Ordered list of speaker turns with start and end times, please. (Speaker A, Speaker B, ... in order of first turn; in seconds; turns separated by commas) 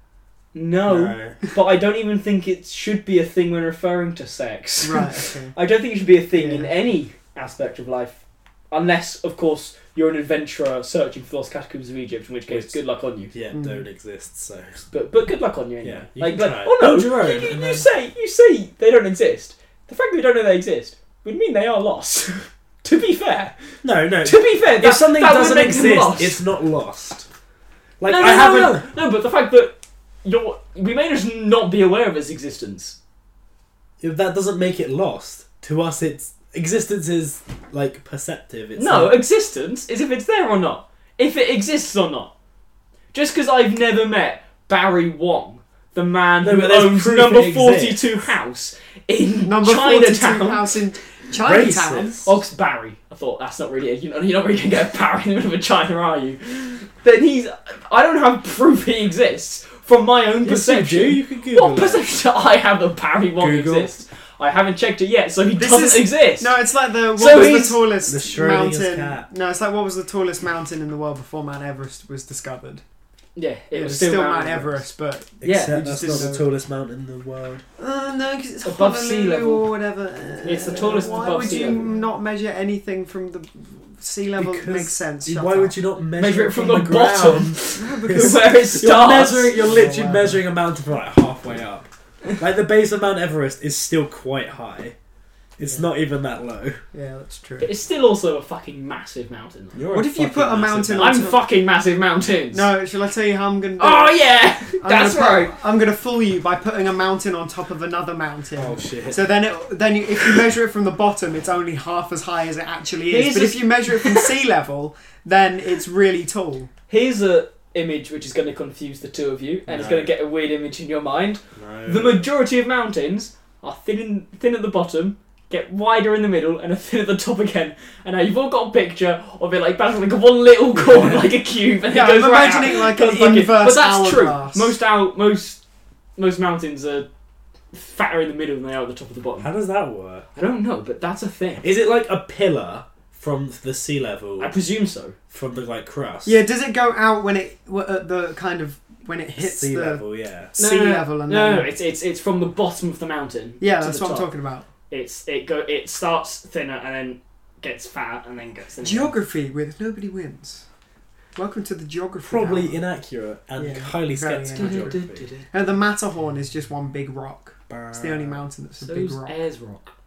Speaker A: 0.5-13.3, Speaker B: 0.9-1.4, Speaker C: 4.8-5.5, Speaker C: 6.3-6.7, Speaker B: 12.5-12.8, Speaker B: 13.3-14.8, Speaker C: 13.5-13.8, Speaker A: 14.9-26.4, Speaker B: 15.8-17.9, Speaker B: 23.8-27.3, Speaker B: 28.0-28.9, Speaker A: 28.0-33.0, Speaker B: 34.0-39.2, Speaker A: 38.8-42.3, Speaker A: 43.1-50.8, Speaker B: 46.4-48.1, Speaker C: 49.5-52.2, Speaker B: 51.4-52.3, Speaker A: 52.3-67.9, Speaker B: 60.5-62.2, Speaker B: 63.4-63.9, Speaker C: 65.6-72.8, Speaker B: 68.1-69.3, Speaker A: 73.4-74.8, Speaker C: 73.7-76.5, Speaker B: 75.4-77.6, Speaker A: 75.4-75.8, Speaker C: 77.8-85.8, Speaker A: 78.6-79.7, Speaker A: 80.4-82.0, Speaker B: 84.4-91.9, Speaker A: 86.2-89.6, Speaker C: 87.8-88.8, Speaker C: 89.5-90.4, Speaker B: 92.4-95.0, Speaker B: 95.6-96.8, Speaker C: 95.6-95.9, Speaker C: 96.9-97.7, Speaker A: 97.6-99.8, Speaker B: 99.8-101.3, Speaker C: 99.9-101.4, Speaker A: 101.0-102.7, Speaker C: 102.5-104.2, Speaker A: 103.8-105.5, Speaker C: 104.8-116.7, Speaker B: 108.6-109.3, Speaker A: 113.1-114.3, Speaker A: 116.9-135.6, Speaker B: 119.7-120.1, Speaker B: 121.6-122.3, Speaker B: 130.8-131.3, Speaker C: 131.9-134.7, Speaker A: 136.2-137.1, Speaker A: 137.7-139.5, Speaker B: 139.4-140.3, Speaker A: 140.3-141.6, Speaker B: 141.6-144.5, Speaker A: 144.4-145.2, Speaker B: 145.3-146.4, Speaker C: 146.2-151.7, Speaker B: 149.4-150.5, Speaker A: 150.6-154.3, Speaker C: 153.6-154.7, Speaker A: 154.9-159.2, Speaker C: 158.8-160.6, Speaker C: 161.4-162.8, Speaker B: 162.2-165.3, Speaker C: 163.6-169.4, Speaker A: 164.5-165.5, Speaker B: 167.7-168.4, Speaker A: 168.8-169.9